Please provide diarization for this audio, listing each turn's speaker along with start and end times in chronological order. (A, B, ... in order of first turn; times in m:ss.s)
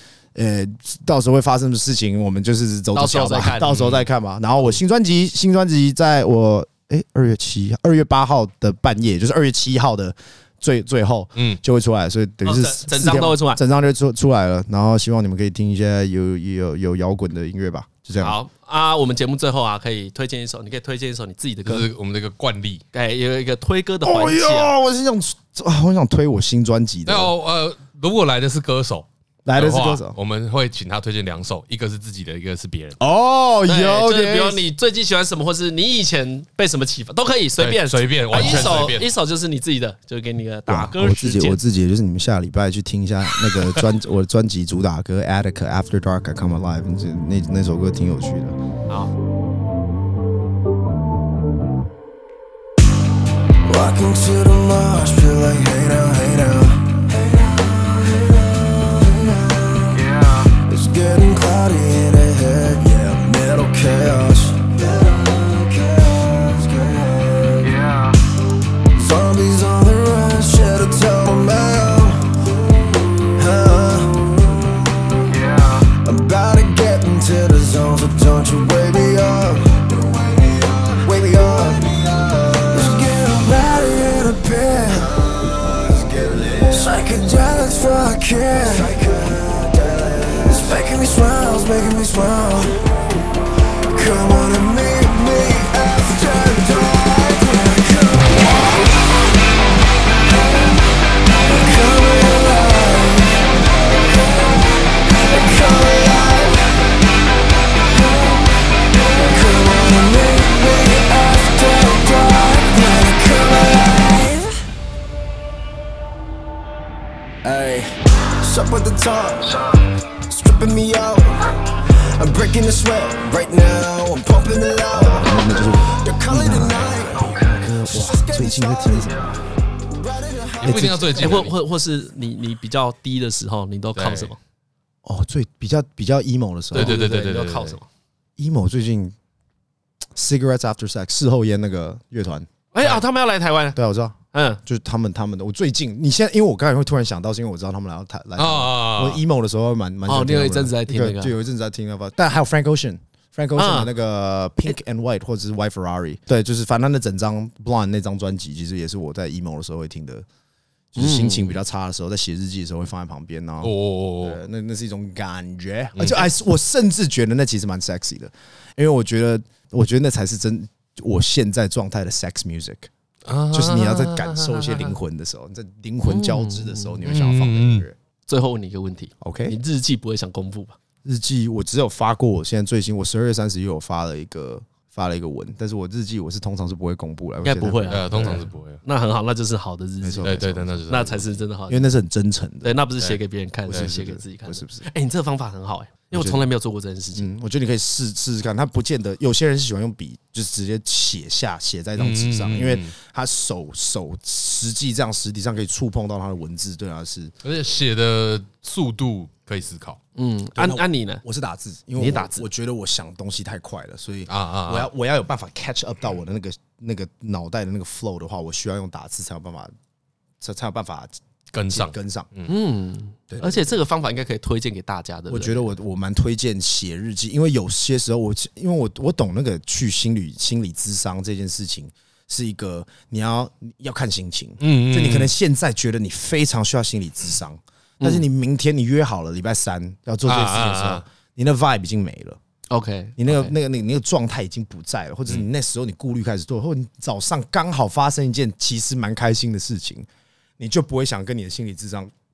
0:00.3-0:18.4 A
0:02.9-0:03.7 B
0:03.6-0:04.0 C
0:11.4-0:11.6 C
0:12.4-0:13.6 B
0:18.2-0:21.8 B
0:21.6-0:22.8 C
0:22.9-0:24.7 B
0:24.0-0:27.3 A
0:27.0-0:33.0 C
0:29.4-0:30.1 A
0:33.0-0:34.6 A
0:33.7-0:41.6 B
0:37.6-0:39.1 C
0:40.7-0:48.6 A
0:53.6-1:08.1 D
1:08.9-1:14.6 D
1:15.1-1:32.8 D
1:33.9-1:38.9 D
1:41.4-1:43.5 D
1:45.0-1:46.7 D
1:48.9-1:54.5 D
1:57.4-1:59.8 D
2:00.3-2:01.4 D
2:02.2-2:11.3 D
2:04.9-2:09.3 A
2:10.6-2:11.3 A
2:10.6-2:11.5 C
2:11.2-2:14.4 B
2:14.0-2:14.3 C
2:15.0-2:17.0 A
2:16.7-2:17.8 C
2:16.7-2:17.8 B
2:18.4-2:19.1 A
2:20.1-2:22.5 A
2:22.7-2:23.8 B
2:23.7-2:40.2 A
2:24.3-2:24.6 B
2:28.4-2:29.2 C
2:30.1-2:31.3 B
2:33.6-2:33.9 B
2:40.9-2:52.9 A
2:41.0-2:41.6 B
2:43.6-2:44.4 C
2:46.0-2:46.2 C
2:53.2-2:54.9 C
2:53.5-2:58.0 A
2:56.0-2:57.0 B
2:57.0-2:57.8 C
2:58.3-3:00.8 B
2:59.2-2:59.5 A
3:01.0-3:08.4 A
3:07.4-3:11.9 B
3:07.9-3:08.8 C
3:10.0-3:11.0 A
3:10.2-3:11.3 C
3:11.7-3:12.8 A
3:12.6-3:17.3 B
3:13.7-3:14.8 A
3:16.1-3:16.4 A
3:17.1-3:27.3 A
3:22.0-3:22.9 C
3:27.4-3:30.0 C
3:30.2-3:31.2 B
3:30.6-3:39.7 A
3:32.0-3:32.4 B
3:34.3-3:34.9 C
3:40.4-3:41.1 A
3:41.5-3:42.5 C
3:41.7-3:42.3 A
3:42.5-3:45.7 B
3:43.3-3:43.8 A
3:45.3-4:02.4 A
3:54.6-3:55.3 C
3:58.0-3:58.2 B
4:00.2-4:01.0 C
4:02.7-4:03.5 B
4:03.2-4:10.1 A
4:10.6-4:12.1 A